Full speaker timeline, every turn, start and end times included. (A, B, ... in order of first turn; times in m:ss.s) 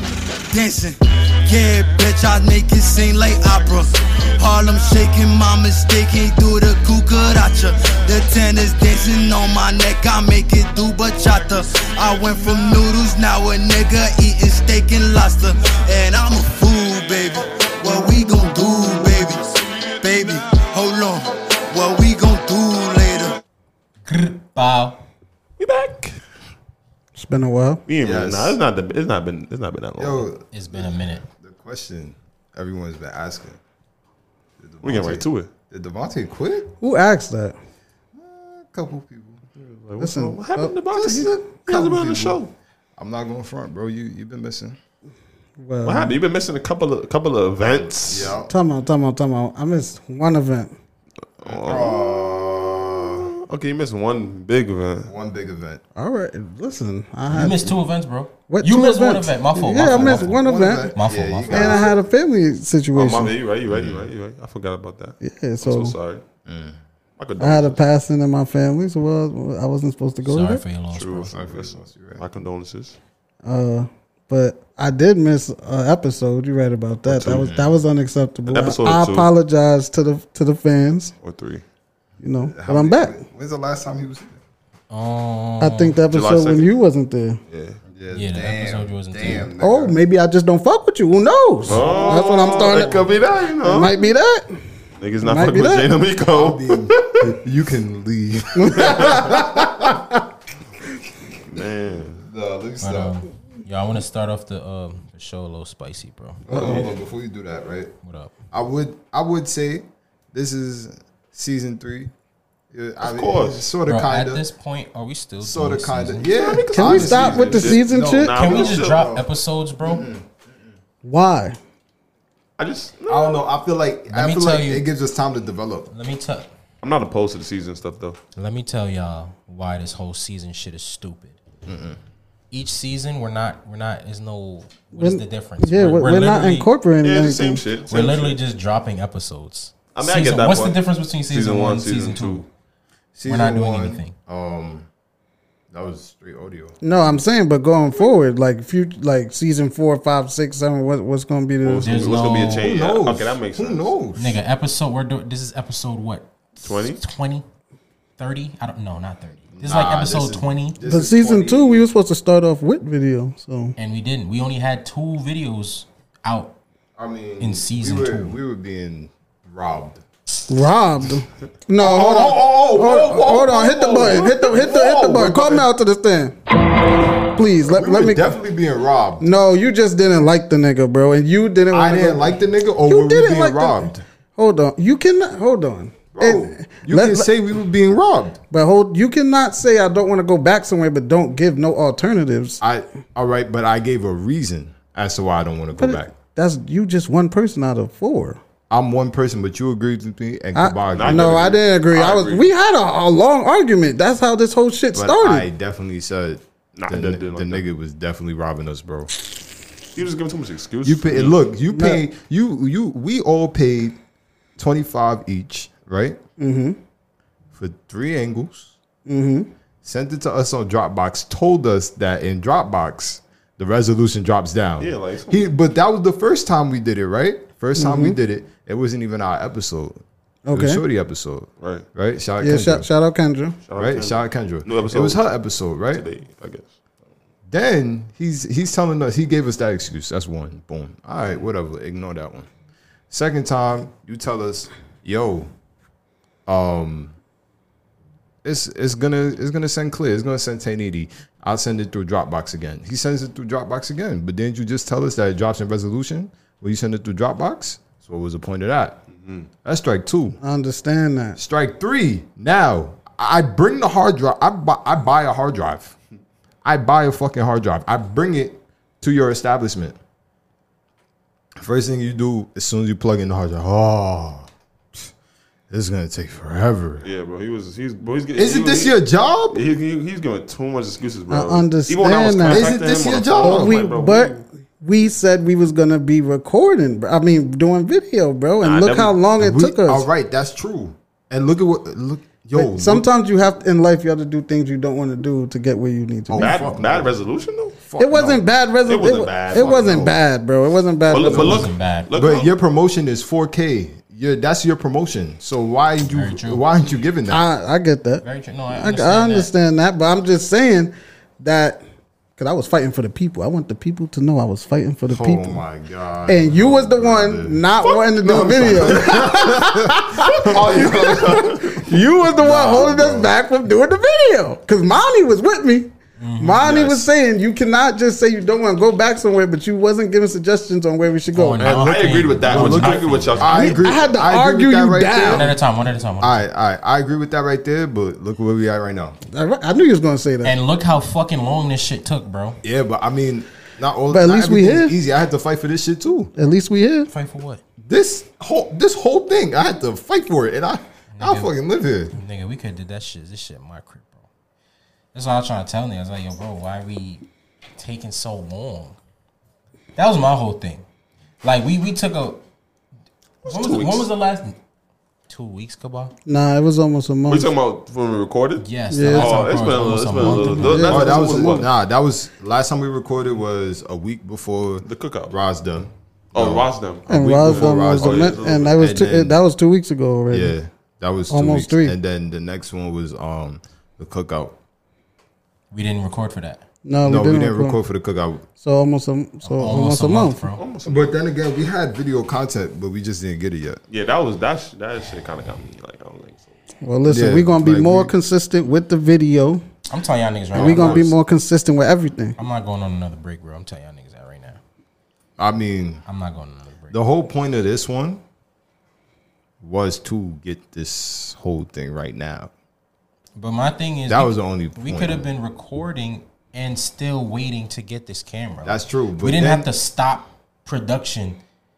0:00.5-0:23.3 A
0:24.0-0:25.0 B
0:25.6-0:26.2 C
0:27.1-0:27.8 D
0:27.9-0:30.3 C
0:28.0-0:28.6 E
0:30.0-0:33.6 E
0:30.5-0:31.2 B
0:34.6-0:36.7 E
0:34.8-0:35.5 C
0:36.8-0:37.6 D
0:38.1-0:39.4 E
0:39.6-0:42.5 C
0:40.0-0:40.7 D
0:40.9-0:42.4 E
0:43.0-0:44.8 E
0:45.6-0:46.1 D
0:45.8-0:48.3 C
0:47.6-0:48.5 E
0:48.4-0:50.7 D
0:51.4-0:52.1 C
0:51.4-0:53.3 E
0:52.8-0:55.1 C
0:55.0-0:55.8 E
0:56.0-0:57.8 D
0:57.3-1:00.4 B
0:58.5-1:00.9 D
0:59.8-1:02.0 E
1:00.9-1:01.8 B
1:01.5-1:03.3 D
1:02.9-1:06.2 C
1:03.6-1:04.1 E
1:05.2-1:05.9 D
1:06.4-1:06.8 E
1:07.2-1:07.8 C
1:07.4-1:10.6 D
1:10.2-1:11.3 B
1:10.9-1:13.0 C
1:11.3-1:12.2 E
1:13.4-1:21.1 D
1:17.0-1:17.4 C
1:17.2-1:17.7 E
1:18.5-1:19.3 C
1:21.2-1:21.6 C
1:22.2-1:23.2 D
1:22.4-1:24.4 E
1:24.9-1:26.0 B
1:25.6-1:27.4 D
1:26.1-1:26.7 C
1:27.5-1:27.8 C
1:27.9-1:30.0 E
1:28.1-1:29.5 B
1:29.6-1:33.0 D
1:31.6-1:33.1 E
1:31.6-1:34.0 C
1:33.6-1:34.5 D
1:35.0-1:37.4 C
1:35.2-1:35.9 D
1:36.2-1:39.9 E
1:38.6-1:40.2 D
1:38.7-1:39.4 C
1:41.5-1:42.2 C
1:42.2-1:43.2 E
1:42.8-1:46.8 B
1:46.5-1:47.9 E
1:46.5-1:46.8 D
1:46.5-1:46.8 C
1:48.0-1:48.3 B
1:48.5-1:52.1 E
1:52.7-1:54.4 E
1:53.0-1:53.7 C
1:53.8-1:56.3 B
1:55.4-1:59.2 E
1:56.4-1:59.2 C
1:56.6-1:58.3 D
1:58.3-2:00.0 B
1:59.8-2:00.4 E
2:01.0-2:01.6 D
2:02.6-2:03.4 C
2:03.1-2:05.9 E
2:04.1-2:04.9 B
2:05.9-2:06.5 B
2:06.8-2:08.2 C
2:08.4-2:11.4 B
2:11.6-2:12.0 E
2:12.5-2:16.7 B
2:15.0-2:17.6 D
2:17.0-2:18.4 C
2:17.9-2:22.4 B
2:19.9-2:22.4 C
2:23.1-2:24.9 E
2:23.2-2:24.1 B
2:25.7-2:27.2 E
2:26.8-2:32.1 D
2:31.6-2:33.9 C
2:31.8-2:32.7 B
2:32.6-2:34.4 E
2:34.2-2:37.4 B
2:36.6-2:37.0 C
2:38.2-2:40.8 B
2:39.6-2:41.9 E
2:40.8-2:43.7 D
2:43.8-2:46.6 B
2:47.0-2:50.0 E
2:47.4-2:48.4 B
2:50.5-2:56.4 D
2:51.8-2:55.7 E
2:54.1-2:54.3 C
2:57.2-2:58.3 D
2:57.6-2:59.2 E
2:59.2-3:02.3 D
3:01.7-3:04.0 E
3:02.8-3:07.3 D
3:06.1-3:08.4 E
3:08.5-3:12.6 D
3:12.6-3:16.1 E
3:15.8-3:18.4 D
3:18.7-3:21.5 E
3:20.5-3:25.4 D
3:20.9-3:22.5 C
3:24.9-3:29.1 E
3:26.8-3:27.6 C
3:29.9-3:31.4 C
3:30.8-3:34.0 E
3:31.7-3:32.0 D
3:34.6-3:36.2 E
3:36.4-3:36.8 D
3:37.5-3:38.7 E
3:39.0-3:39.5 D
3:39.8-3:52.9 E
3:44.8-3:45.5 C
3:47.8-3:48.2 D
3:50.4-3:50.8 D
3:51.6-3:51.8 C
3:52.4-3:53.6 D
3:53.6-3:55.3 C
3:53.8-3:56.0 E
3:55.9-3:56.7 C
3:57.5-4:02.5 E
4:03.1-4:05.5 E
4:06.5-4:07.2 E
4:08.4-4:19.0 E
4:19.2-4:19.5 C
4:19.6-4:20.4 E
4:20.4-4:21.4 D
4:21.4-4:25.9 E
4:26.6-4:30.0 E
4:31.6-4:35.1 E
4:35.7-4:37.0 E
4:37.0-4:39.0 C
4:38.4-4:39.6 E
4:39.5-4:44.4 C
4:41.3-4:42.7 D
4:42.4-4:43.8 E
4:43.4-4:50.0 D
4:48.6-4:49.2 C
4:49.4-4:53.1 E
4:52.6-4:56.6 D
4:56.3-4:57.1 E
4:56.4-4:57.8 C
4:57.8-4:58.4 E
4:58.0-5:01.6 D
4:58.8-5:00.2 C
5:01.1-5:02.5 C
5:01.2-5:07.4 E
5:01.4-5:02.1 B
5:06.0-5:06.6 B
5:07.3-5:11.8 D
5:08.2-5:09.5 B
5:12.4-5:15.6 D
5:15.1-5:17.6 E
5:16.3-5:31.6 D
5:18.2-5:23.3 E
5:18.2-5:19.4 C
5:20.2-5:21.8 C
5:26.2-5:26.8 B
5:26.7-5:27.1 E
5:31.3-5:33.6 B
5:31.6-5:34.1 C
5:32.4-5:35.5 E
5:33.4-5:35.5 D
5:35.2-5:36.4 B
5:36.2-5:39.2 E
5:39.3-5:40.5 D
5:40.4-5:42.6 B
5:42.6-5:46.3 E
5:44.1-5:44.9 D
5:46.4-5:47.1 D
5:47.1-5:47.6 B
5:47.8-5:52.1 E
5:51.1-5:51.5 B
5:52.1-5:54.3 B
5:55.1-5:57.2 B
5:57.8-5:59.0 B
6:00.0-6:00.8 B
6:01.4-6:02.4 B
6:03.4-6:04.1 C
6:03.4-6:04.6 B
6:05.3-6:06.1 B
6:06.2-6:07.5 D
6:07.3-6:11.7 C
6:08.6-6:11.0 B
6:08.9-6:09.5 D
6:10.2-6:11.6 D
6:10.8-6:19.4 E
6:14.8-6:15.3 C
6:16.3-6:18.8 C
6:17.1-6:20.6 D
6:20.3-6:24.6 E
6:21.3-6:21.9 D
6:25.7-6:26.6 B
6:26.8-6:27.8 D
6:27.0-6:28.4 E
6:28.6-6:30.4 D
6:29.4-6:30.6 B
6:30.6-6:31.2 C
6:30.8-6:33.8 E
6:33.9-6:36.5 C
6:36.8-6:39.6 D
6:37.0-6:38.1 E
6:39.9-6:41.1 B
6:40.5-6:41.1 E
6:40.5-6:42.4 D
6:42.4-6:44.6 B
6:45.4-6:46.0 E
6:46.0-6:47.0 B
6:46.9-6:48.2 E
6:49.6-6:52.5 E
6:53.4-7:01.4 B
6:54.1-6:55.3 E
6:58.6-6:59.7 E